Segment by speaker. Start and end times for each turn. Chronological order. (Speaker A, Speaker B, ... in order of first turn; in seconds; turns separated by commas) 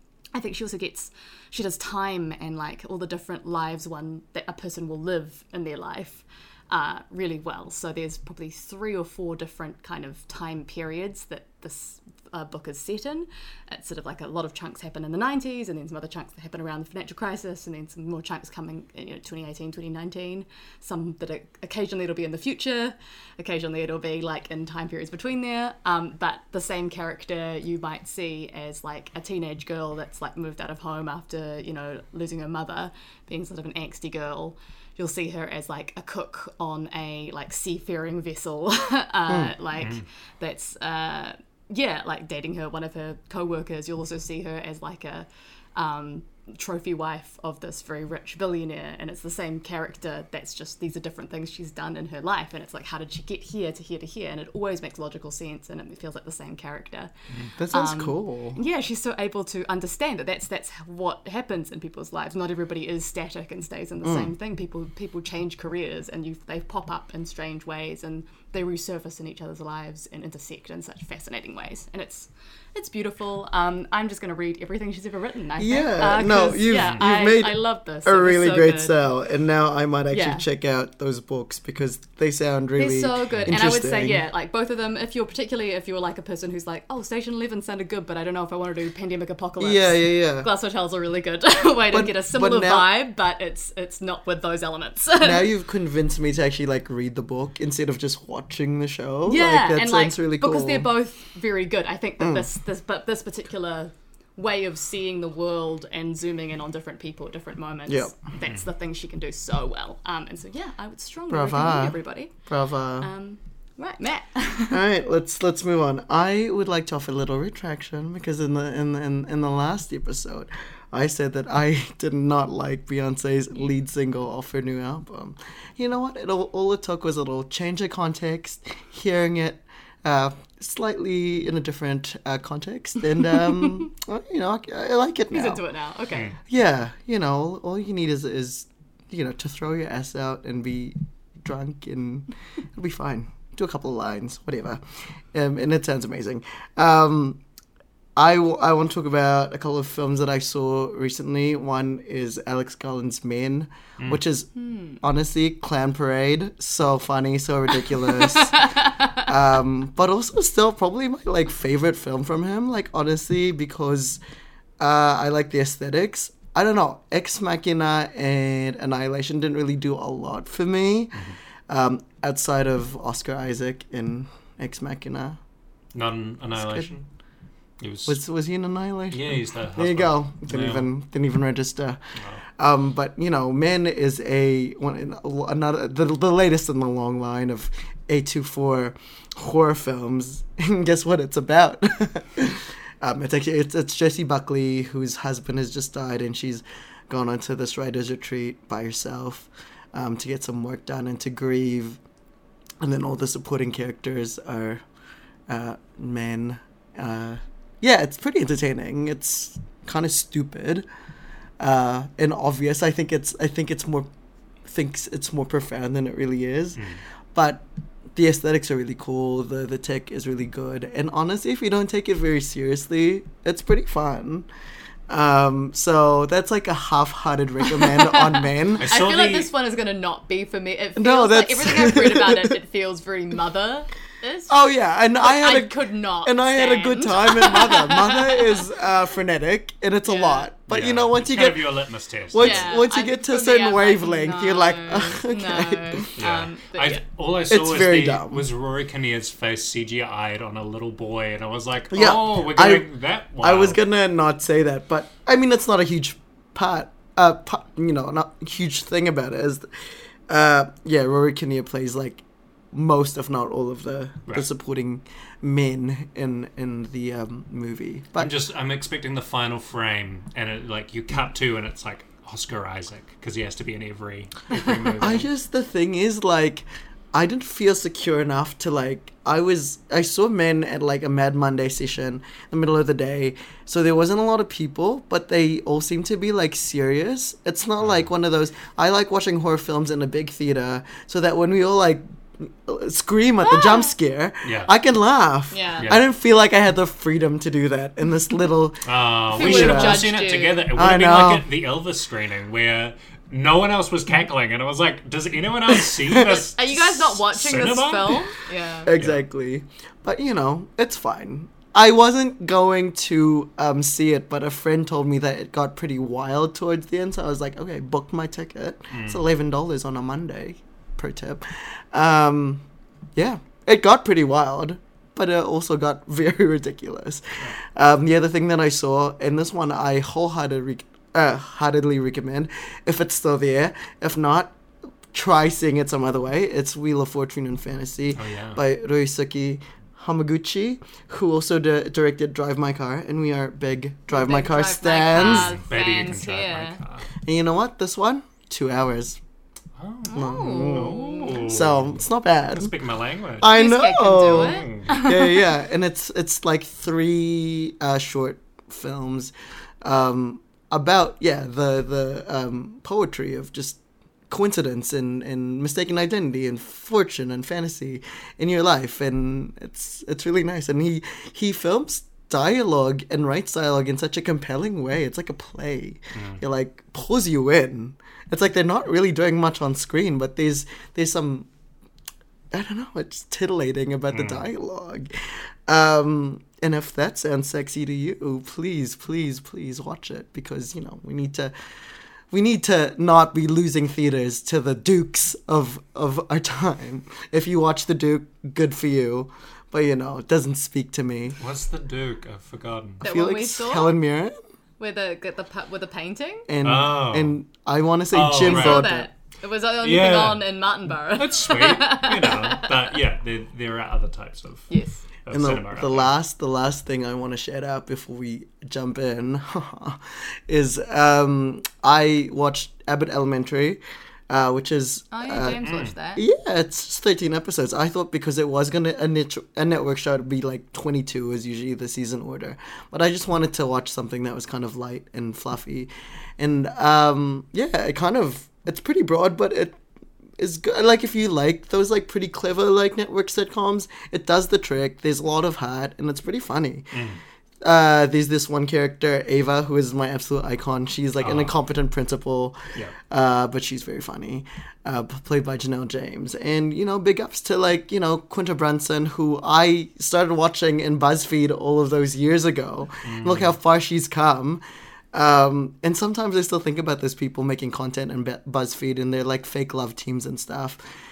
Speaker A: 0.3-57.1, Speaker B: 39.8-40.0, Speaker C: 57.6-58.6, Speaker A: 57.7-79.0, Speaker C: 64.0-64.3, Speaker C: 75.6-84.2, Speaker B: 76.8-77.0, Speaker A: 80.1-80.5, Speaker A: 82.8-95.5, Speaker C: 89.6-90.5, Speaker C: 91.9-92.9, Speaker C: 95.2-100.9, Speaker A: 99.2-112.3, Speaker C: 102.2-102.5, Speaker C: 107.9-108.1, Speaker C: 111.3-113.1, Speaker A: 113.0-114.8, Speaker C: 114.7-135.6, Speaker A: 135.3-136.3, Speaker C: 136.5-147.4, Speaker C: 148.2-154.5, Speaker A: 154.6-155.0, Speaker C: 155.0-164.2, Speaker A: 158.0-159.3, Speaker C: 164.8-175.4, Speaker B: 175.9-177.1, Speaker C: 176.6-176.9, Speaker B: 177.8-178.2, Speaker C: 178.1-182.0, Speaker B: 179.1-180.9, Speaker B: 182.2-182.4, Speaker C: 182.6-202.0, Speaker C: 202.8-204.8, Speaker C: 205.5-210.8, Speaker C: 211.6-214.1, Speaker C: 214.7-216.8, Speaker C: 217.3-224.5, Speaker C: 225.1-228.9, Speaker A: 227.7-234.6, Speaker B: 228.8-229.5, Speaker C: 231.0-232.6, Speaker C: 234.5-241.7, Speaker A: 235.2-238.7, Speaker A: 240.1-240.5, Speaker B: 240.7-242.7, Speaker C: 242.3-246.1, Speaker A: 242.4-247.0, Speaker B: 246.2-253.8, Speaker C: 247.5-248.5, Speaker C: 251.9-252.9, Speaker C: 253.4-259.7, Speaker C: 260.3-268.3, Speaker B: 268.2-275.3, Speaker C: 275.0-300.1, Speaker B: 287.8-288.1, Speaker A: 293.4-293.9, Speaker B: 294.4-294.7, Speaker A: 295.5-295.9, Speaker B: 298.9-308.3, Speaker A: 299.3-300.7, Speaker C: 300.7-301.5, Speaker A: 306.2-308.9, Speaker C: 308.9-322.6, Speaker B: 308.9-309.2, Speaker B: 318.9-319.2, Speaker C: 323.1-334.5, Speaker C: 335.1-345.6, Speaker B: 338.1-338.6, Speaker A: 344.1-346.8, Speaker B: 345.1-347.1, Speaker C: 347.2-349.2, Speaker B: 349.8-353.6, Speaker A: 350.1-351.5, Speaker C: 350.1-352.7, Speaker C: 353.4-381.5, Speaker A: 353.5-355.4, Speaker B: 354.2-355.0, Speaker B: 376.1-376.4, Speaker C: 382.5-391.5, Speaker B: 384.1-384.5, Speaker C: 392.3-401.4, Speaker B: 401.4-403.0, Speaker C: 403.0-404.3, Speaker A: 403.0-403.9, Speaker A: 404.8-406.5, Speaker C: 406.5-409.1, Speaker B: 406.6-407.4, Speaker B: 408.1-408.9, Speaker A: 408.4-412.8, Speaker B: 409.8-410.5, Speaker B: 411.1-414.7, Speaker A: 414.7-415.0, Speaker B: 415.2-416.1, Speaker C: 415.3-439.8, Speaker A: 425.1-426.2, Speaker B: 425.6-425.9, Speaker C: 440.4-446.9, Speaker B: 446.9-447.2, Speaker C: 447.6-452.6, Speaker B: 451.2-451.6, Speaker C: 453.1-464.6, Speaker B: 463.0-463.6, Speaker C: 465.1-470.8